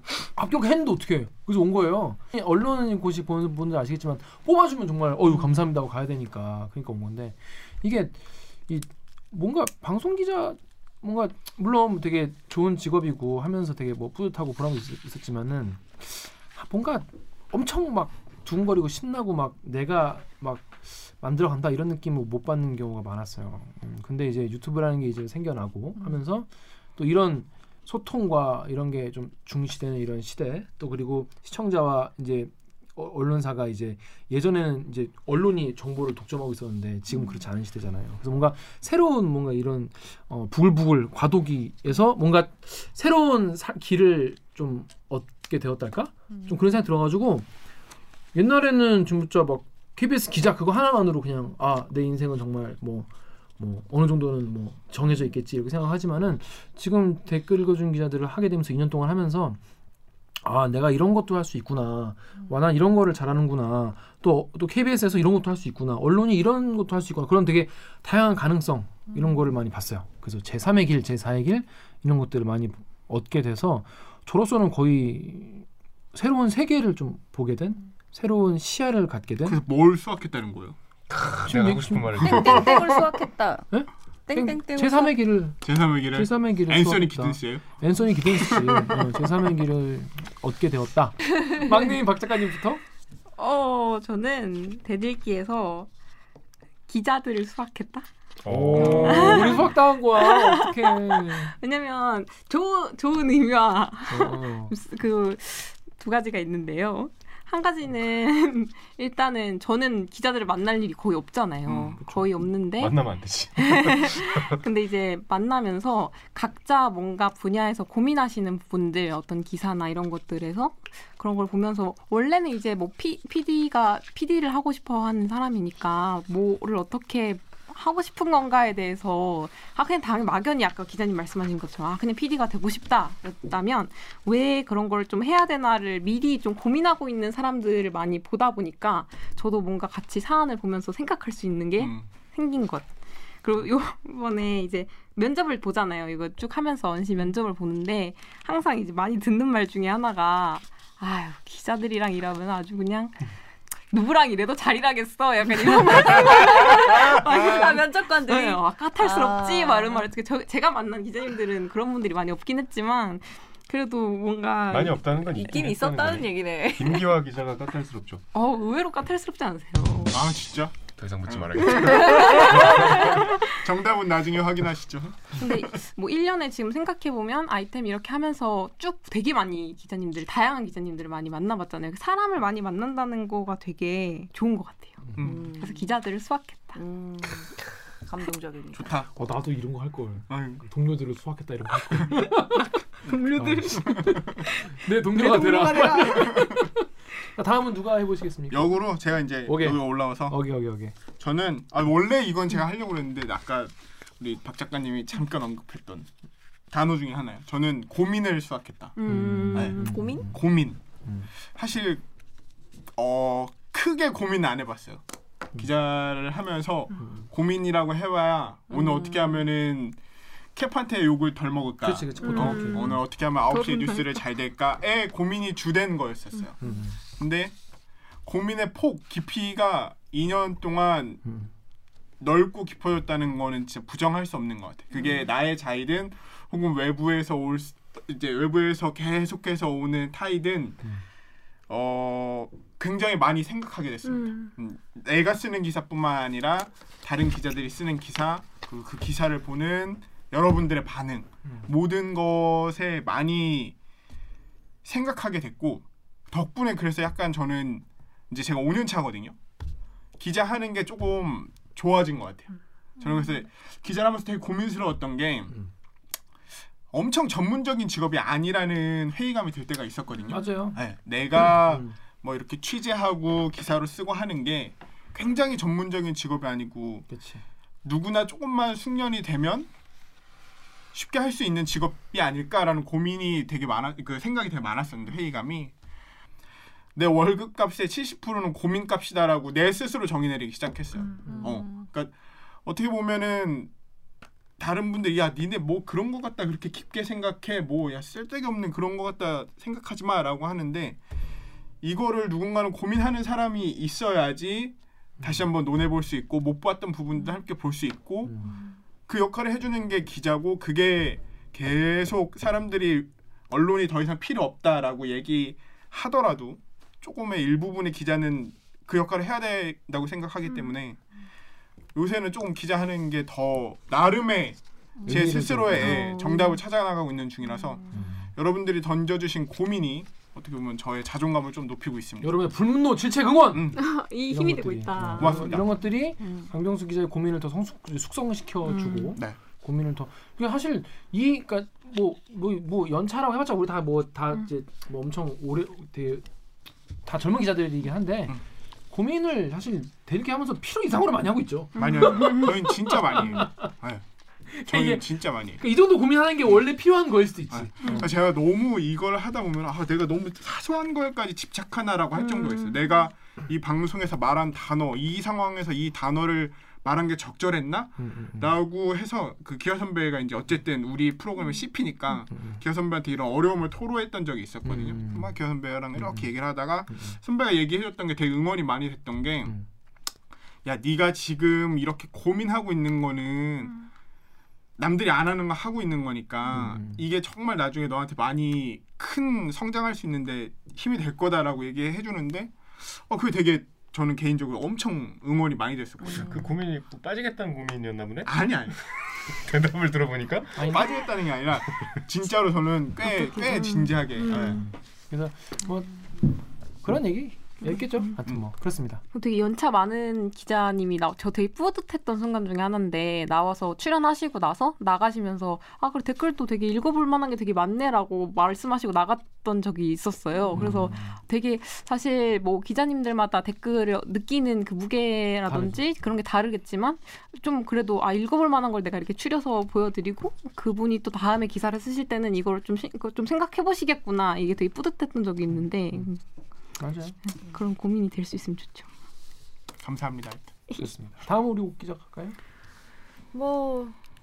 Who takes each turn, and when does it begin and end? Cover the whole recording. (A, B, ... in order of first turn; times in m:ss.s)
0:00.4-0:08.2 A
0:08.7-0:47.5 A
0:48.4-0:53.1 A
0:53.6-0:59.6 A
1:00.4-1:19.6 A
1:19.4-1:20.8 B
1:21.1-1:22.9 C
1:21.5-1:22.6 A
1:22.3-1:23.1 B
1:22.4-1:23.6 D
1:23.7-1:32.8 A
1:24.3-1:25.1 D
1:25.6-1:27.6 B
1:28.3-1:29.2 B
1:33.4-1:35.9 E
1:36.9-1:38.1 E
1:38.4-1:39.7 C
1:38.5-1:41.5 A
1:38.8-1:53.0 E
1:44.1-1:44.7 A
1:51.7-1:52.0 B
1:52.8-1:54.6 C
1:53.6-2:22.9 E
2:21.8-2:22.0 B
2:23.4-2:33.2 E
2:33.9-2:44.8 E
2:36.0-2:40.1 D
2:44.7-2:48.2 C
2:44.7-2:47.1 D
2:48.3-2:50.2 E
2:50.1-2:55.5 B
2:50.9-2:53.3 C
2:51.8-2:53.5 E
2:55.4-3:05.0 E
3:05.2-3:05.5 B
3:05.2-3:05.8 D
3:05.6-3:06.8 E
3:06.8-3:08.8 D
3:08.7-3:09.1 B
3:09.2-3:12.8 A
3:10.3-3:10.6 B
3:13.0-3:14.3 B
3:13.1-3:13.6 D
3:13.3-3:18.8 A
3:15.1-3:16.4 D
3:16.0-3:16.6 B
3:18.5-3:20.4 B
3:19.5-3:21.0 A
3:21.2-3:26.1 B
3:26.7-3:28.9 B
3:29.0-3:30.0 E
3:29.1-3:30.4 A
3:29.5-3:30.8 B
3:29.8-3:30.3 D
3:31.5-3:32.0 B
3:33.0-3:35.0 B
3:35.6-3:40.0 B
3:37.0-3:37.3 A
3:40.6-3:46.6 B
3:41.8-3:43.0 A
3:42.2-3:43.0 E
3:43.5-3:44.2 E
3:46.6-3:47.0 A
3:47.2-3:47.5 B
3:48.3-3:51.2 B
3:51.2-3:51.5 A
3:52.2-4:00.8 B
4:01.7-4:13.8 B
4:04.1-4:04.5 E
4:14.8-4:19.4 B
4:20.2-4:22.5 B
4:23.0-4:25.6 B
4:26.9-4:37.1 B
4:30.3-4:30.8 A
4:31.4-4:32.0 A
4:37.1-4:37.4 A
4:37.8-4:39.7 B
4:40.9-4:45.7 B
4:47.0-4:52.1 B
4:52.7-4:53.7 B
4:54.6-5:01.0 B
5:01.8-5:08.5 B
5:05.2-5:05.5 A
5:08.2-5:08.6 A
5:09.1-5:21.0 B
5:22.0-5:32.4 B
5:25.1-5:26.0 A
5:26.0-5:26.6 E
5:27.9-5:28.3 A
5:32.2-5:46.3 A
5:33.5-5:33.8 B
5:33.8-5:35.5 E
5:35.0-5:35.8 B
5:38.7-5:39.2 E
5:47.1-5:48.4 A
5:48.9-5:53.7 A
5:51.8-5:54.0 B
5:51.8-5:52.6 E
5:54.5-5:58.1 A
5:54.7-5:55.6 B
5:57.5-6:19.6 B
6:02.4-6:02.8 E
6:08.0-6:08.5 A
6:12.3-6:12.6 A
6:14.6-6:15.3 A
6:16.0-6:16.3 A
6:16.9-6:17.2 A
6:20.6-6:23.8 B
6:24.8-6:36.4 B
6:26.5-6:27.0 A
6:36.1-6:38.7 C
6:38.2-6:38.8 B
6:39.3-6:40.8 C
6:40.6-6:40.9 A
6:40.7-6:44.6 B
6:43.2-6:44.6 E
6:45.1-6:46.0 A
6:46.8-6:49.0 A
6:49.1-7:16.2 E
7:00.5-7:01.2 A
7:05.5-7:05.8 A
7:15.5-7:16.1 A
7:16.8-7:17.2 A
7:17.4-7:18.9 E
7:19.8-7:20.5 B
7:20.8-7:22.4 A
7:23.3-7:24.0 D